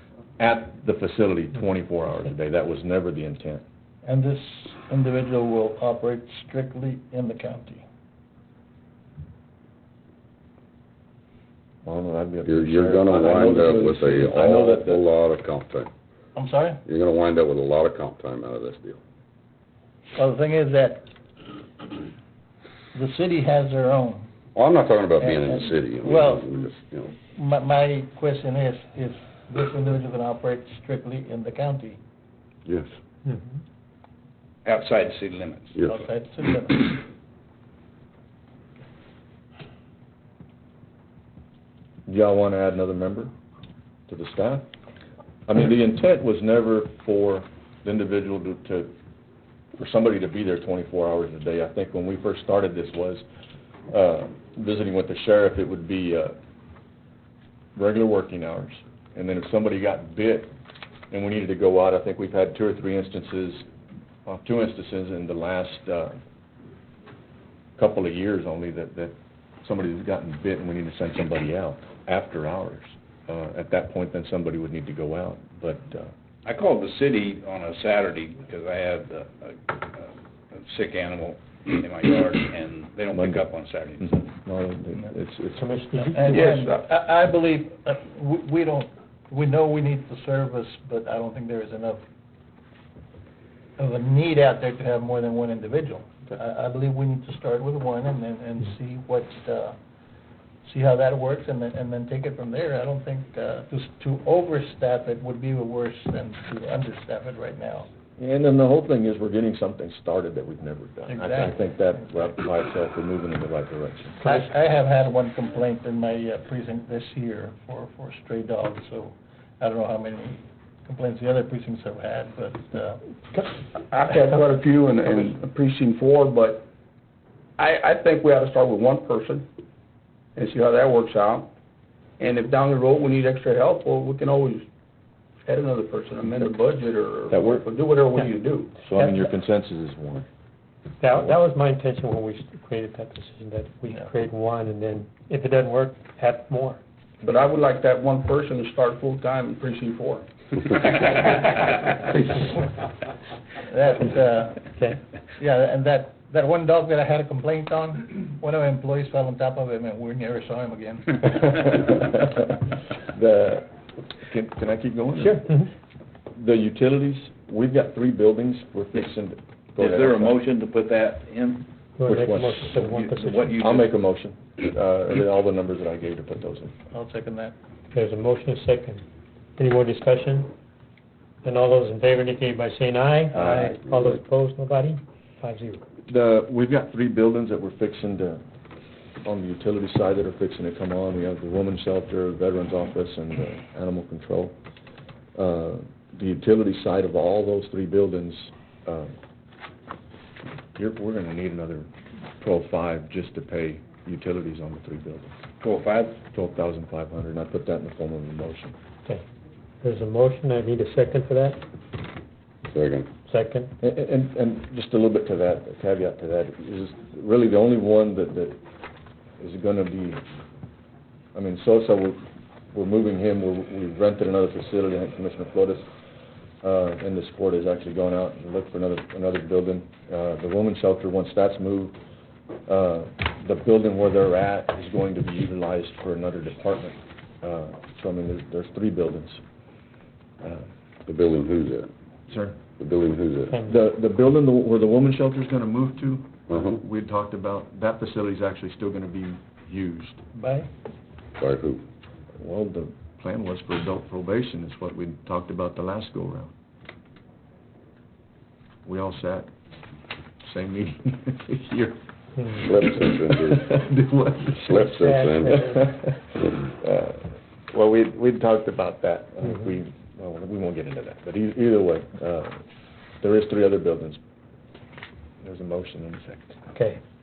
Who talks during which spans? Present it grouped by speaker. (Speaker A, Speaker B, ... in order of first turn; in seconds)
Speaker A: 0.4-3.6, 11.8-15.0, 42.1-43.3, 44.1-44.7, 45.5-48.9, 49.8-53.2, 53.9-56.4, 57.8-60.5, 61.1-63.6, 64.2-66.2, 67.8-76.1, 83.1-83.5, 84.0-85.6, 108.2-114.2, 137.3-137.6, 138.8-140.3, 161.4-165.5, 166.3-170.3, 172.1-172.8, 173.5-176.7, 183.3-183.8, 186.1-188.4, 189.2-194.6, 195.3-199.1, 200.7-205.3, 206.3-208.7, 213.8-218.6, 219.4-220.2, 221.3-222.2, 222.7-225.9, 226.6-231.9, 232.7-239.4, 240.4-240.7, 242.3-242.6, 243.6-250.2, 252.4-256.5, 258.8-259.5, 260.4-262.0, 262.5-264.9, 265.5-272.6, 273.2-274.2, 275.4-276.6
Speaker B: 4.0-7.8, 16.4-16.8, 20.1-21.1, 22.9-24.3, 25.2-26.4, 27.3-32.0, 35.9-37.0, 86.0-92.0, 93.8-99.7, 100.6-107.9, 111.1-111.5, 114.2-123.4, 153.7-154.7, 155.4-161.3, 176.9-177.5, 250.3-250.7
Speaker C: 12.4-15.9, 16.8-19.0, 24.5-27.1, 212.7-213.1, 241.1-241.9, 242.8-243.5, 246.5-246.8, 251.4-251.8, 262.6-263.7, 264.6-265.8
Speaker D: 34.6-36.0, 76.4-84.2, 169.8-171.6, 172.8-173.9, 205.6-206.2
Speaker E: 85.5-86.6, 138.9-139.3, 141.0-146.8, 154.7-155.0, 165.2-165.7, 172.0-173.6, 177.9-179.0, 179.6-180.5, 181.4-185.8, 209.8-211.6, 213.3-213.7, 243.5-243.8, 262.4-262.7, 264.9-265.9, 276.7-277.0
Speaker F: 86.2-86.8, 123.9-126.7, 127.6-129.4, 130.3-131.5, 132.2-134.6, 135.4-138.7, 147.2-151.3, 152.1-152.6